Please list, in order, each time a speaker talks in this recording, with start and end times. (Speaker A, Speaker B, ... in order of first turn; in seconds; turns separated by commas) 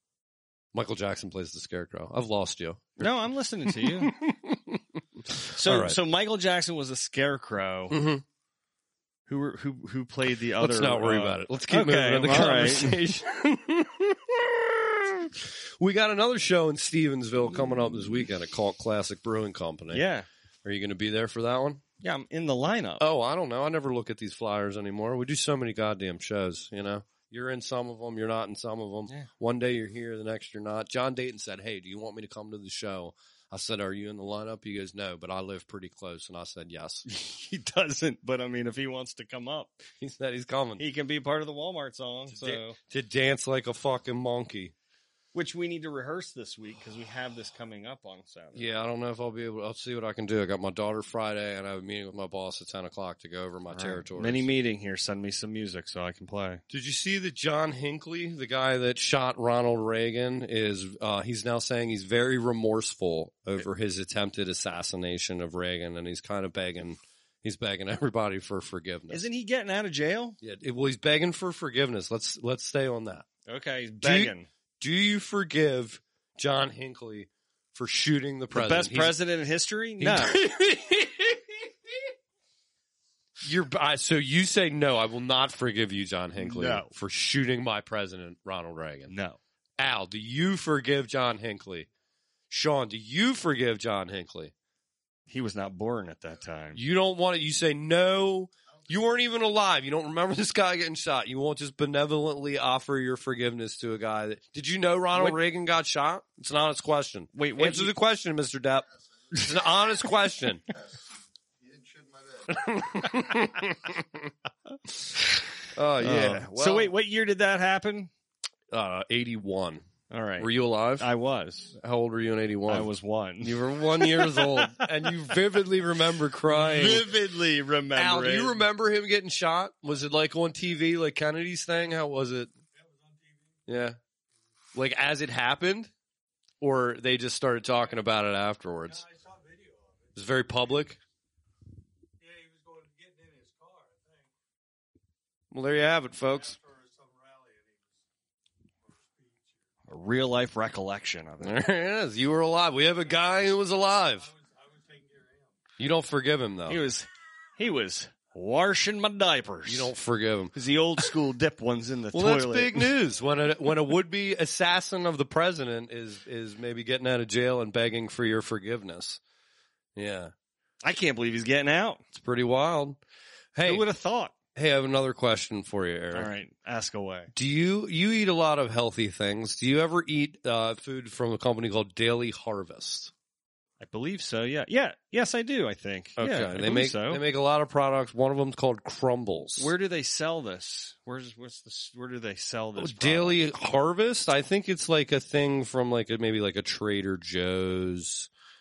Speaker A: 0.7-3.1, Speaker B: 3.0-4.1, Speaker A: 3.6-6.0, Speaker B: 5.5-8.0, Speaker A: 7.9-8.2, Speaker B: 9.3-13.0, Speaker A: 10.6-20.1, Speaker B: 19.9-20.3, Speaker A: 20.6-21.8, Speaker B: 22.0-23.0, Speaker A: 23.0-37.1, Speaker B: 37.1-39.8, Speaker A: 40.0-40.8, Speaker B: 40.8-42.8, Speaker A: 42.3-44.7, Speaker B: 45.3-48.6, Speaker A: 48.5-54.5, Speaker B: 53.7-56.6, Speaker A: 56.7-69.3, Speaker B: 69.1-70.4, Speaker A: 70.4-73.3, Speaker B: 73.5-74.5, Speaker A: 74.0-79.2, Speaker B: 78.5-80.4, Speaker A: 80.0-81.7, Speaker A: 83.4-89.1, Speaker B: 86.4-86.9, Speaker B: 89.1-89.4, Speaker A: 89.8-91.9, Speaker A: 92.5-94.5, Speaker B: 95.3-96.8, Speaker A: 96.7-110.6, Speaker B: 107.3-107.9, Speaker A: 112.5-114.3, Speaker A: 115.8-116.9, Speaker B: 116.0-118.1, Speaker A: 118.7-119.8, Speaker B: 120.1-121.7, Speaker A: 120.4-121.1, Speaker A: 121.7-122.9, Speaker B: 122.7-124.9, Speaker A: 123.4-127.1, Speaker B: 126.5-128.7, Speaker A: 128.0-132.5, Speaker C: 132.8-133.6, Speaker A: 133.7-134.0, Speaker A: 134.8-135.9, Speaker A: 136.6-139.0, Speaker C: 138.9-140.2, Speaker A: 140.2-141.0, Speaker C: 142.2-144.3, Speaker A: 145.5-146.6, Speaker C: 146.1-148.0, Speaker C: 148.9-149.5, Speaker B: 149.9-151.6, Speaker A: 151.4-154.3, Speaker C: 154.2-155.6, Speaker A: 155.8-156.8, Speaker B: 156.7-159.9, Speaker A: 159.7-161.1, Speaker B: 160.5-162.9, Speaker A: 162.1-169.2, Speaker A: 170.0-170.3, Speaker B: 170.8-172.0, Speaker A: 172.1-173.0, Speaker A: 173.6-173.9, Speaker B: 173.7-174.3, Speaker A: 174.6-176.3, Speaker B: 176.1-177.3, Speaker A: 177.3-183.1, Speaker B: 183.8-187.2, Speaker A: 186.2-189.7, Speaker B: 189.6-193.4, Speaker A: 192.8-198.3